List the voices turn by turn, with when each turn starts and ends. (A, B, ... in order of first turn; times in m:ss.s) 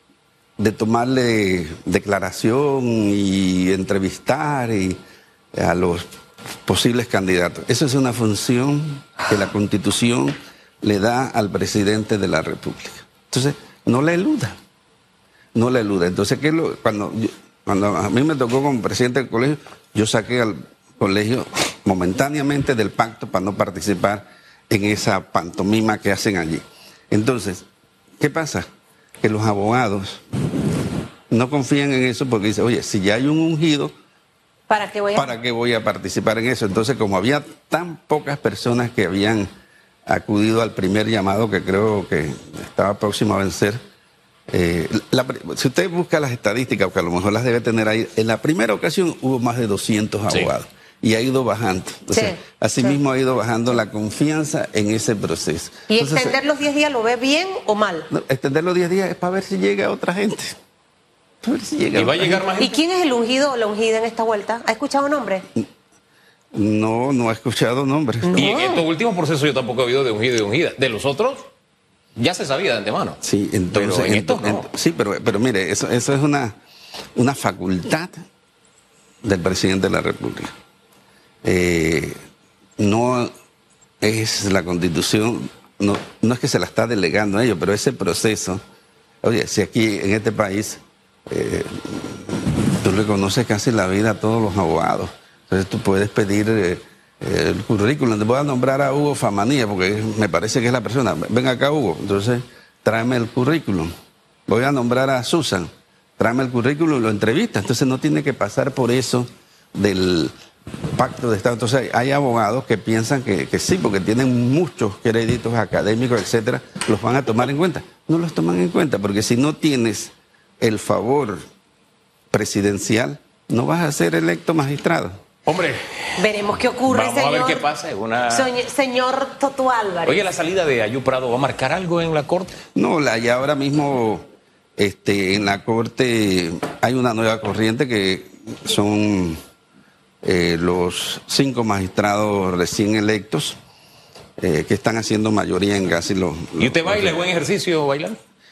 0:00.6-0:05.0 A
0:05.5-0:06.1 A
0:06.6-0:14.6 A
0:15.6-0:27.6 A
0:28.2-0:28.7 A
0:29.2-0:30.2 A
0:31.3-0:33.9 A
0:34.7-0:35.4 B
0:35.2-0:39.5 A
0:40.1-0:43.8 A
0:44.5-0:56.4 A
0:52.1-0:53.0 B
0:55.9-0:58.1 B
0:58.1-1:00.6 A
1:01.4-1:02.4 A
1:01.9-1:02.8 C
1:02.6-1:05.5 B
1:06.5-1:08.5 A
1:08.2-1:08.8 B
1:08.3-1:11.5 C
1:12.2-1:13.2 C
1:13.2-1:16.6 A
1:13.7-1:14.7 C
1:17.2-1:18.2 A
1:19.2-1:20.5 A
1:21.4-1:22.2 A
1:22.8-1:23.3 A
1:24.0-1:28.6 A
1:29.2-1:43.9 A
1:44.5-1:50.3 A
1:50.9-2:01.4 A
2:02.3-2:05.2 A
2:05.5-2:06.2 C
2:06.2-2:07.6 B
2:06.9-2:08.5 C
2:08.3-2:10.3 B
2:10.1-2:12.5 C
2:12.8-2:14.2 A
2:14.8-2:19.4 A
2:20.2-2:23.6 A
2:24.4-2:27.2 A
2:26.6-2:28.2 C